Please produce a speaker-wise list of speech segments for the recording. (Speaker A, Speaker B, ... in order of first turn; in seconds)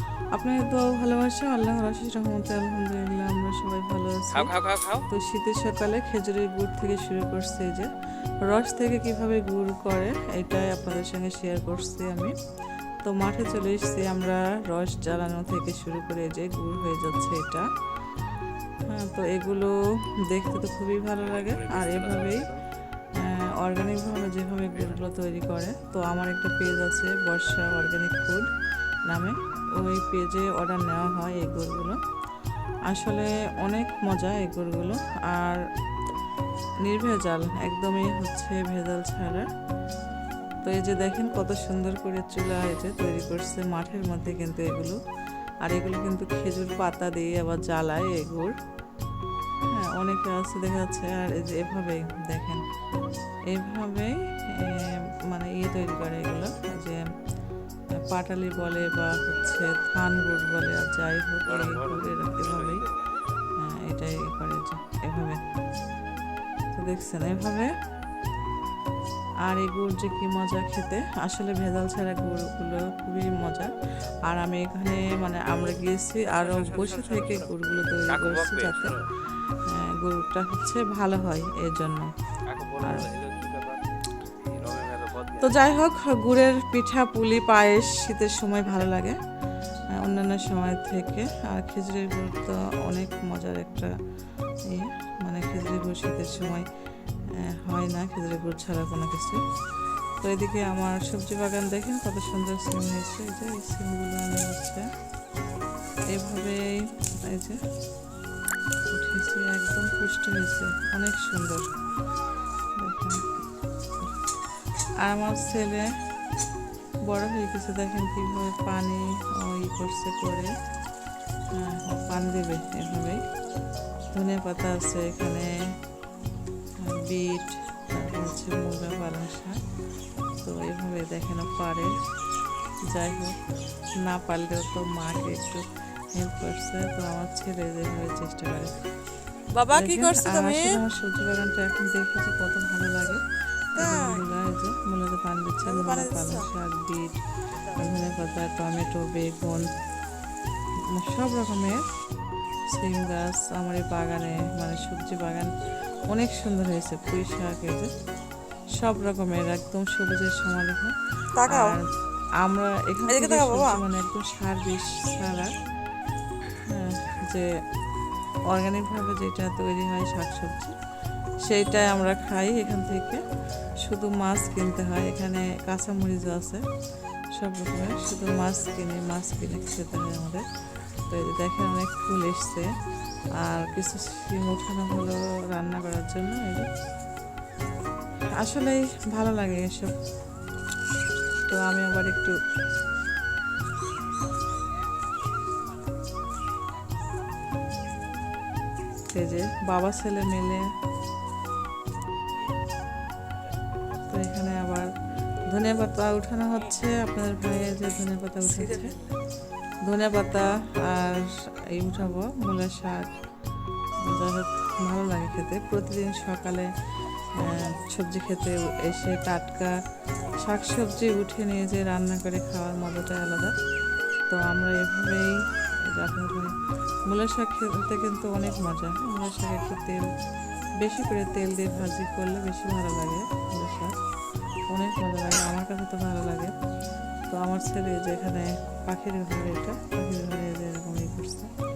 Speaker A: 0.3-4.5, 5.1-7.9, 8.4-12.3, 13.0-17.6, 18.9-19.7, 20.3-22.5, 23.2-28.4, 29.1-32.0, 32.9-35.6, 36.9-39.5, 40.6-45.0, 45.6-48.5, 49.7-52.6, 53.5-57.0, 58.1-62.8, 63.6-65.4, 66.8-67.7, 69.5-73.7, 74.3-79.0, 79.7-82.1, 85.4-89.2, 90.0-93.9, 94.7-96.6, 97.6-99.4, 100.2-104.8, 106.1-106.6, 107.3-107.6, 108.9-111.7, 112.8-113.2, 115.0-115.9, 117.1-120.5, 121.5-123.2, 124.1-125.5, 126.8-129.6, 130.4-131.9, 132.9-133.3, 134.1-135.6, 136.1-138.7, 139.7-143.2, 143.8-147.2, 147.7-149.7, 150.9-151.8, 152.7-155.5, 156.1-157.9, 158.8-160.9, 161.5-161.8, 162.4-165.5, 166.7-167.5, 168.5-170.7, 171.4-173.2, 173.8-176.6, 177.4-180.4, 181.1-182.7, 183.4-186.7, 188.4-189.9, 191.5-192.3, 199.1-200.7, 204.1-204.9, 205.5-208.9, 209.8-213.1, 214.1-216.7, 217.4-219.8, 220.4-223.5, 224.3-225.3, 225.9-226.5, 227.1-230.0, 230.8-233.9, 234.7-236.5, 237.3-241.5
Speaker B: 4.3-5.0, 21.2-22.6, 24.7-25.0, 61.4-63.0, 76.4-79.0, 82.5-83.8, 84.4-85.6
Speaker C: 139.6-140.6, 143.8-144.1, 145.7-146.4, 163.1-163.7